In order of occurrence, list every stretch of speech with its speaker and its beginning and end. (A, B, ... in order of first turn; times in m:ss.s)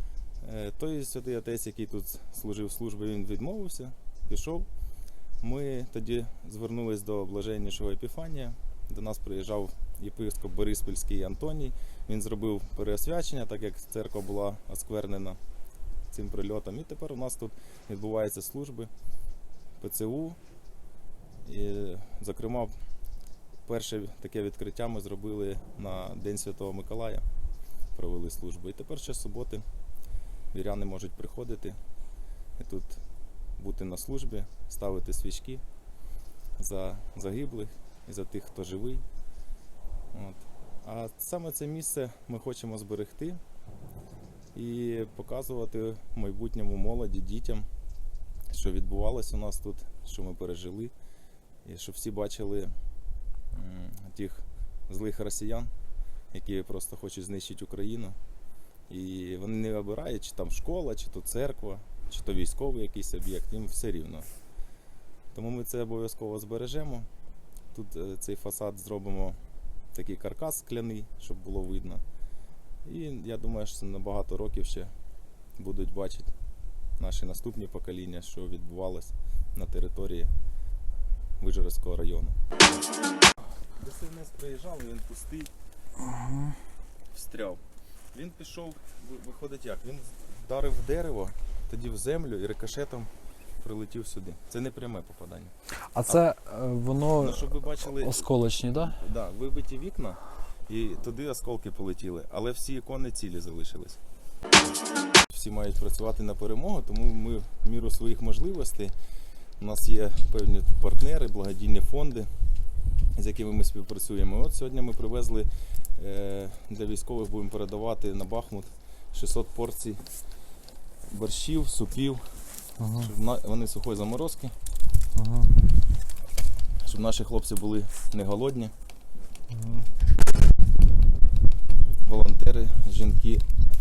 0:00.4-0:04.7 A
0:05.4-0:15.4 A
0:16.1-0:18.9 A
0:19.8-0:20.4 A
0:21.4-0:22.7 A
0:23.6-0:27.2 A
0:27.9-0:29.6 A
0:30.5-0:31.8 A
0:32.6-0:33.0 A
0:33.6-0:35.6 A
0:36.6-0:39.0 A
0:40.1-0:43.4 A
0:44.5-0:47.7 A
0:48.5-0:50.9 A
0:51.6-0:52.7 A
0:53.5-0:55.7 A
0:56.3-0:58.2 A
0:58.9-1:04.3 A
1:05.3-1:07.1 A
1:07.7-1:09.4 A
1:09.9-1:12.0 A
1:12.8-1:14.9 A
1:15.6-1:16.3 A
1:17.0-1:20.3 A
1:21.4-1:22.4 A
1:23.8-1:25.5 A
1:27.1-1:27.6 A
1:28.1-1:33.1 A
1:33.6-1:35.5 A
1:35.9-1:38.9 B
1:37.1-1:44.0 A
1:45.3-1:48.9 A
1:49.6-1:52.3 A
1:53.2-2:00.0 A
2:01.1-2:04.5 A
2:02.8-2:03.1 B
2:05.2-2:05.5 B
2:06.8-2:08.7 A
2:09.5-2:09.9 B
2:12.0-2:13.4 A